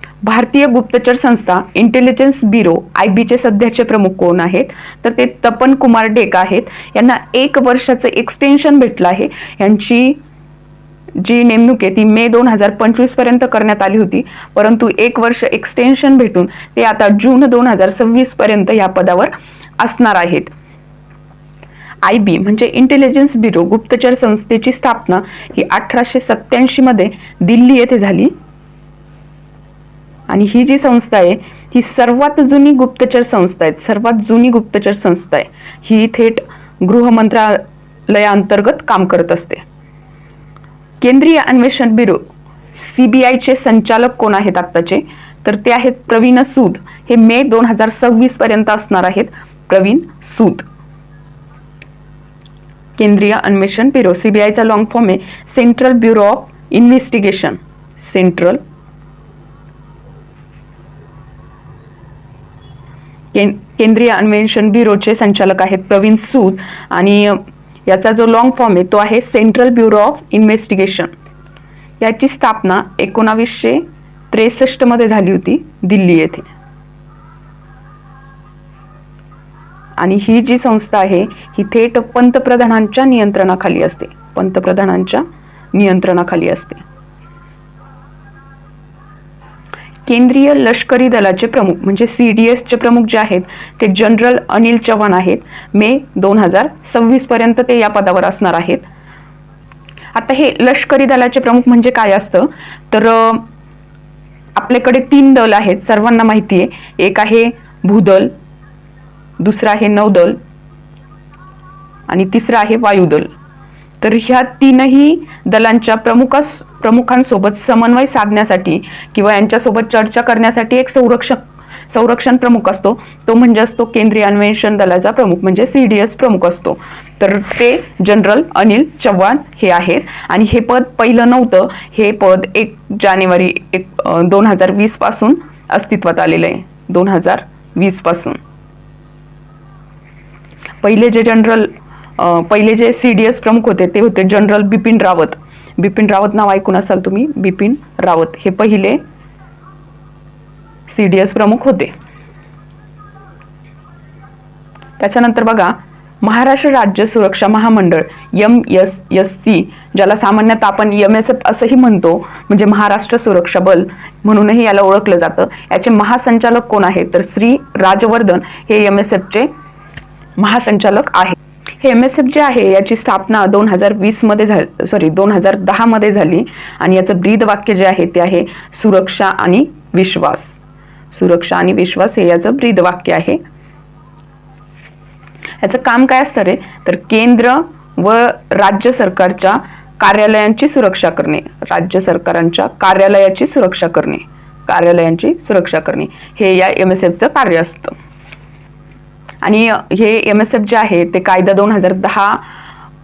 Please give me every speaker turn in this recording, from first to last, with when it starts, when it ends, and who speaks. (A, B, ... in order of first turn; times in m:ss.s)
0:00.2-0:10.2 A
0:11.2-0:20.5 A
0:22.0-0:28.3 A
0:30.3-0:39.6 A
0:41.0-0:50.7 A
0:53.0-0:58.6 A
1:03.3-1:11.1 A
1:12.0-1:16.5 A
1:20.0-1:26.8 A
1:30.1-1:38.9 A
1:40.1-1:43.5 A
1:44.6-1:48.3 A
1:49.4-1:50.4 A
1:52.1-1:53.3 A
1:54.0-2:18.4 A
2:20.8-2:29.0 A
2:30.9-2:31.9 A
2:35.0-2:49.5 A
2:50.4-3:00.6 A
3:01.1-3:03.4 A
3:05.6-3:17.9 A
3:19.4-3:22.4 A